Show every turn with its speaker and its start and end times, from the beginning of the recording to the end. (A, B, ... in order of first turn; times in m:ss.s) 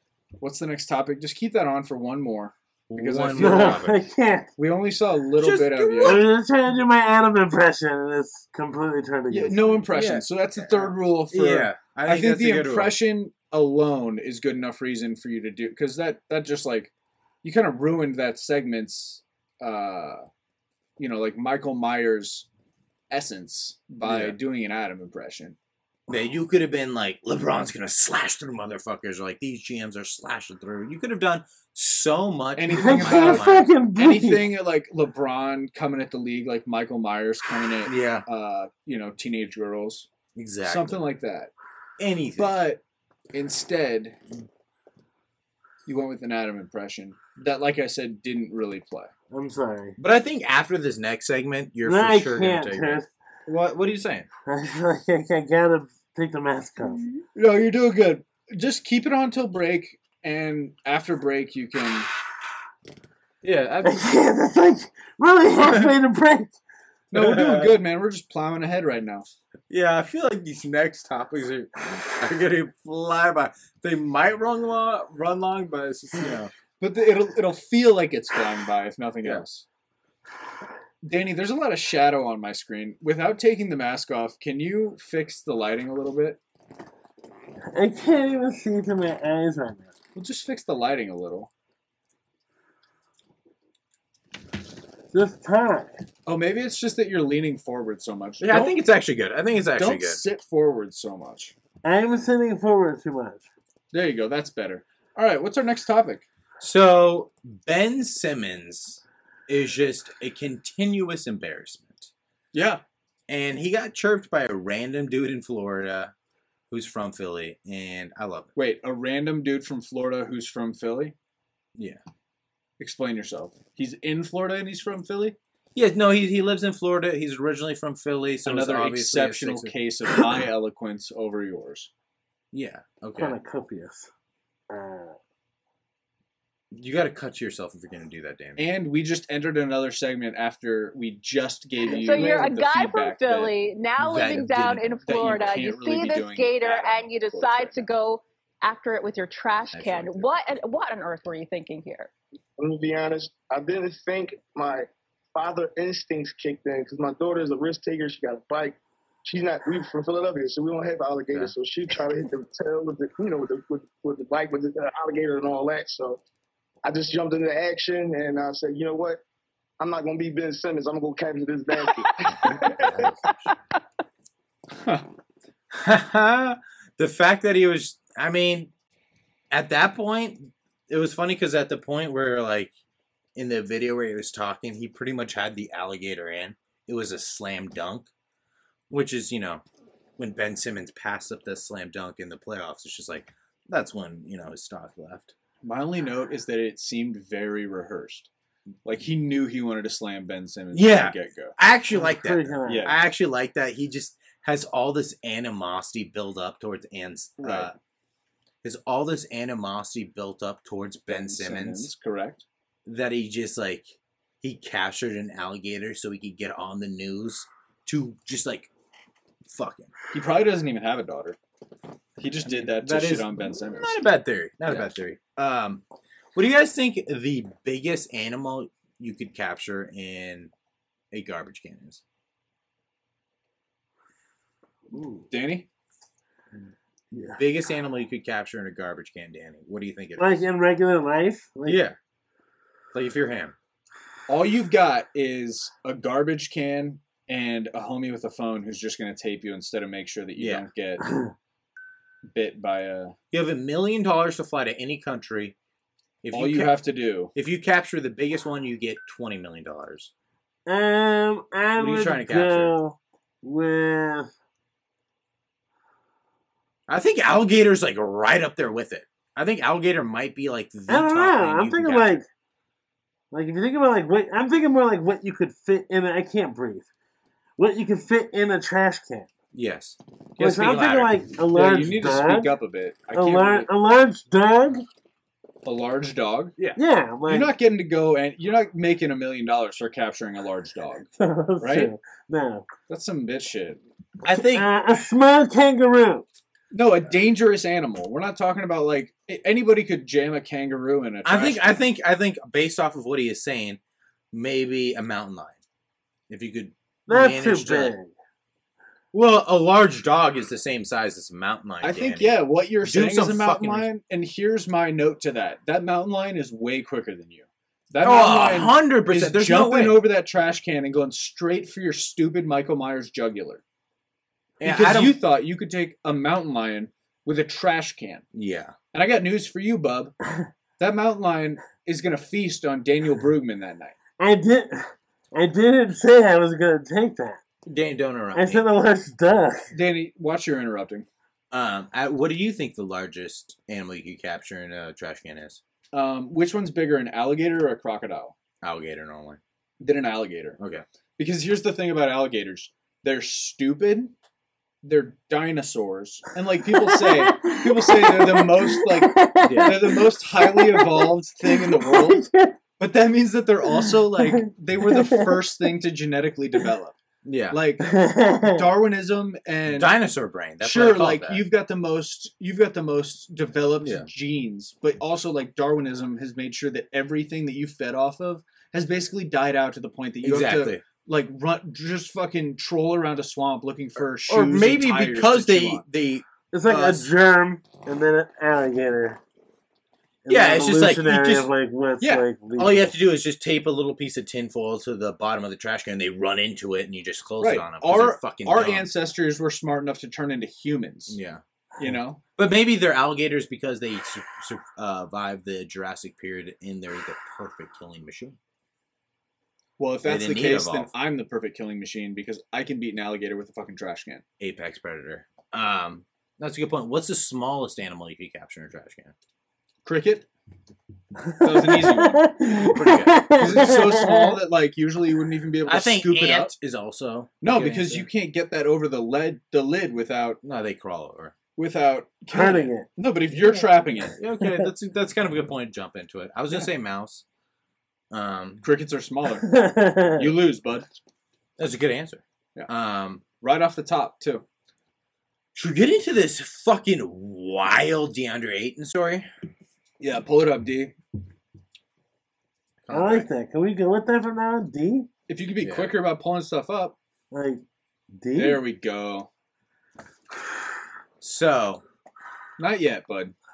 0:00.4-0:03.9 A
0:02.9-0:04.0 B
0:03.4-0:04.5 C
0:04.6-0:06.2 A
0:05.4-0:06.2 B
0:06.0-0:09.9 C
0:09.3-0:16.9 A
0:09.9-0:13.0 B
0:17.4-0:20.2 A
0:21.0-0:22.5 A
0:23.1-0:25.6 A
0:24.0-0:24.3 B
0:26.1-0:33.7 B
0:32.6-0:40.1 A
0:32.7-0:34.5 C
0:37.8-0:38.2 B
0:40.4-0:41.0 B
0:40.6-0:41.5 A
0:42.0-0:42.6 B
0:42.4-0:42.8 A
0:43.3-0:44.2 A
0:45.8-0:49.1 A
0:49.3-0:50.0 C
0:50.0-0:54.3 B
0:51.8-0:53.1 C
0:54.4-0:57.0 C
0:57.3-1:02.1 A
1:03.4-1:04.1 B
1:03.8-1:06.5 C
1:07.1-1:09.3 A
1:07.1-1:07.8 B
1:09.7-1:16.5 B
1:16.8-1:19.6 A
1:21.0-1:26.4 A
1:27.7-1:29.9 C
1:30.1-1:31.5 A
1:35.1-1:35.9 C
1:36.2-1:38.8 A
1:38.4-1:40.2 B
1:39.8-1:41.5 A
1:41.8-1:43.4 C
1:43.9-1:46.2 A
1:46.6-1:52.1 B
1:52.5-1:52.8 A
1:53.3-1:56.1 B
1:56.7-1:58.5 B
1:58.5-2:01.1 A
2:02.8-2:05.4 A
2:05.7-2:09.7 B
2:08.4-2:11.9 A
2:12.5-2:13.4 B
2:13.1-2:14.1 C
2:14.7-2:15.2 C
2:16.7-2:18.7 B
2:18.6-2:23.6 A
2:21.8-2:32.1 D
2:24.0-2:25.3 B
2:25.0-2:27.9 A
2:29.7-2:30.3 B
2:32.6-2:46.2 E
2:46.8-2:49.2 E
2:49.8-2:53.0 E
2:52.3-2:53.5 B
2:54.8-2:55.0 A
2:55.7-2:58.7 B
2:59.5-3:02.7 B
3:03.4-3:08.1 B
3:08.9-3:09.6 B
3:10.2-3:15.3 B
3:15.6-3:18.3 A
3:18.8-3:21.5 A
3:20.7-3:27.7 B
3:21.9-3:22.9 C
3:22.6-3:22.9 A
3:27.4-3:27.7 A
3:28.6-3:31.9 B
3:31.1-3:32.4 A
3:32.8-3:33.9 B
3:34.4-3:38.7 B
3:39.5-3:39.9 B
3:40.1-3:41.4 A
3:42.2-3:44.0 A
3:42.4-3:45.8 B
3:46.3-3:50.5 B
3:51.1-3:52.0 B
3:54.9-3:55.2 C
3:55.3-3:55.7 A
3:57.1-3:57.4 C
3:57.3-4:00.4 B
4:00.2-4:01.8 C
4:01.6-4:02.0 B
4:02.9-4:03.5 B
4:04.3-4:11.0 A
4:10.4-4:10.6 B
4:12.3-4:13.2 A
4:13.3-4:15.6 B
4:16.2-4:16.8 B
4:16.3-4:17.3 A
4:17.3-4:20.1 B
4:20.7-4:24.3 C
4:21.7-4:22.7 B
4:26.9-4:32.2 B
4:30.9-4:32.2 C
4:33.3-4:36.9 C
4:37.6-4:39.3 C
4:39.5-4:41.2 B
4:40.4-4:42.5 C
4:41.5-4:43.7 A
4:43.1-4:44.8 C
4:45.6-4:46.6 A
4:46.8-4:47.5 C
4:47.3-4:51.1 A
4:51.2-4:52.6 C
4:51.6-4:51.9 A
4:52.9-4:53.8 A
4:54.2-4:54.7 B
4:54.4-4:56.2 C
4:56.7-5:01.8 A
5:01.2-5:03.8 B
5:04.3-5:05.6 B
5:06.3-5:07.9 B
5:07.1-5:08.1 C
5:09.1-5:13.8 B
5:11.8-5:23.6 A
5:18.0-5:20.0 B
5:24.6-5:25.2 B
5:24.6-5:28.2 A
5:28.3-5:28.7 B
5:28.9-5:30.1 A
5:30.8-5:34.0 A
5:34.2-5:34.8 C
5:35.3-5:37.4 C
5:37.7-5:38.7 B
5:38.4-5:39.6 C
5:39.7-5:41.1 A
5:41.5-5:45.6 B
5:45.9-5:48.4 A
5:48.6-5:49.4 B
5:49.8-5:50.6 A
5:50.6-5:50.8 B
5:51.2-5:54.1 A
5:54.8-6:02.2 A
5:56.9-6:01.0 C
5:59.4-6:00.0 B
6:01.8-6:02.5 C
6:02.8-6:07.0 A
6:07.2-6:07.6 B
6:07.5-6:09.9 A
6:07.9-6:08.6 C
6:09.7-6:11.4 B
6:10.6-6:25.8 A
6:13.8-6:14.1 B
6:20.2-6:20.8 B
6:24.3-6:27.0 B
6:26.5-6:29.2 C
6:30.2-6:32.9 C
6:30.3-6:31.5 B
6:32.0-6:32.3 A
6:32.6-6:38.9 B
6:37.4-6:41.2 A
6:41.1-6:41.4 B
6:41.8-6:42.2 A
6:42.4-6:48.4 B
6:49.8-6:54.2 A
6:50.0-6:50.9 B
6:54.4-6:59.1 B
6:59.8-7:00.3 A
7:01.4-7:02.3 A
7:02.4-7:02.9 C
7:02.4-7:03.7 B
7:03.4-7:06.5 A
7:05.6-7:08.1 B
7:07.4-7:10.4 A
7:10.4-7:11.3 B
7:11.6-7:14.2 A
7:12.4-7:12.8 C
7:14.1-7:17.2 B
7:18.1-7:18.6 B
7:18.6-7:19.6 A
7:20.1-7:20.9 A
7:21.6-7:23.2 B
7:23.4-7:24.4 A
7:25.5-7:29.3 B
7:30.0-7:31.0 A
7:32.8-7:33.3 B
7:33.0-7:34.9 C
7:35.3-7:37.0 A
7:35.6-7:36.0 B
7:38.3-7:39.3 A
7:41.2-7:41.8 B
7:42.6-7:43.3 A